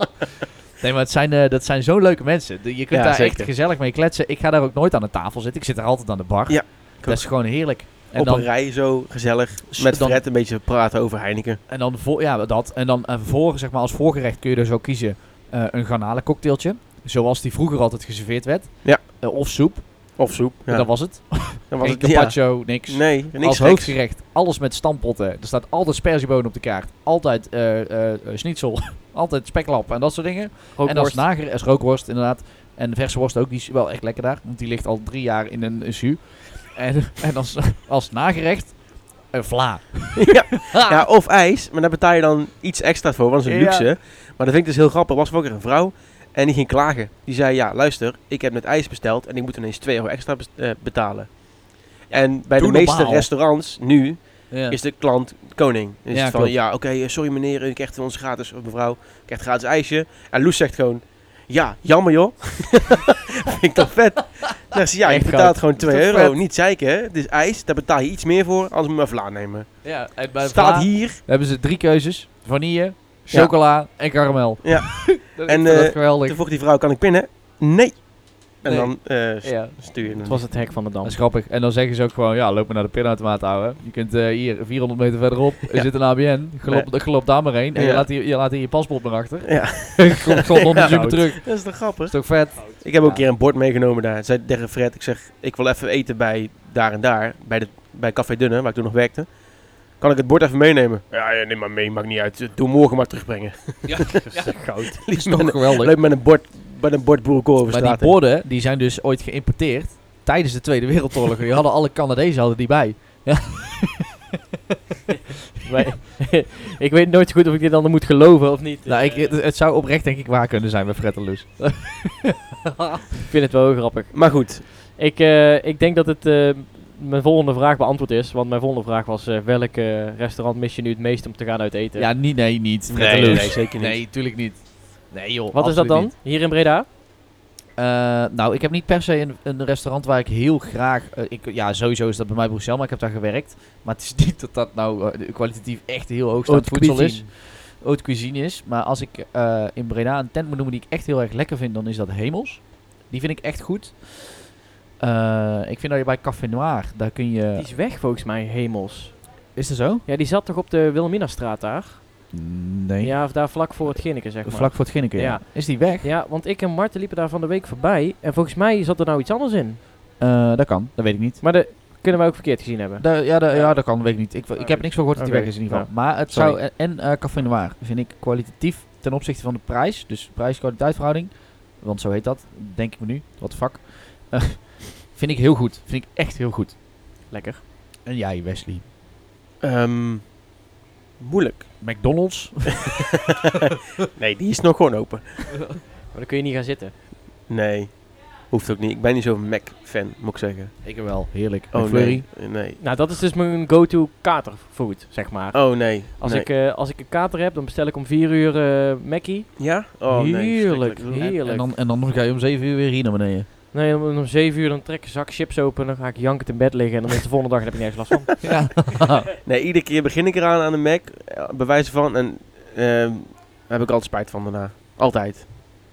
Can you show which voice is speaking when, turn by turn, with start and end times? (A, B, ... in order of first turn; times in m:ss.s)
0:00.8-0:08.5 A
0:02.9-0:03.5 B
0:06.5-0:11.6 B
0:09.7-0:10.2 A
0:11.7-0:40.5 A
0:18.8-0:19.6 B
0:20.2-0:24.0 B
0:30.8-0:31.3 C
0:40.2-1:11.2 B
0:43.4-0:43.9 A
0:52.3-0:53.3 A
0:54.5-0:54.8 A
0:56.1-0:56.6 A
1:05.0-1:05.6 C
1:05.8-1:06.4 A
1:09.8-1:16.4 A
1:13.3-1:14.1 B
1:14.6-1:20.5 B
1:18.6-1:19.7 A
1:19.4-1:21.2 C
1:21.0-1:33.3 A
1:25.7-1:28.1 B
1:29.5-1:48.2 B
1:30.7-1:31.2 C
1:43.9-1:46.0 A
1:44.2-1:45.0 C
1:47.7-1:54.1 A
1:55.6-1:59.4 C
1:58.9-2:02.4 A
2:03.3-2:12.1 C
2:04.1-2:04.7 B
2:12.0-2:16.1 A
2:12.9-2:14.0 B
2:15.5-2:16.9 C
2:17.8-2:37.7 A
2:26.4-2:27.3 C
2:37.6-2:39.5 C
2:39.6-2:40.0 A
2:40.0-2:42.3 C
2:42.3-2:46.1 A
2:43.0-2:49.8 C
2:50.2-2:51.4 A
2:51.4-2:56.6 C
2:53.0-3:06.8 A
3:07.3-3:07.6 C
3:08.0-3:08.8 A
3:09.6-3:10.6 B
3:11.2-3:12.2 B
3:11.8-3:12.9 A
3:14.1-3:15.8 B
3:16.1-3:16.9 C
3:17.5-3:22.8 B
3:20.8-3:22.3 A
3:22.8-3:31.7 C
3:25.5-3:26.5 B
3:29.6-3:31.3 B
3:31.2-3:33.5 A
3:33.7-3:38.5 C
3:38.4-3:39.2 A
3:39.4-3:45.5 B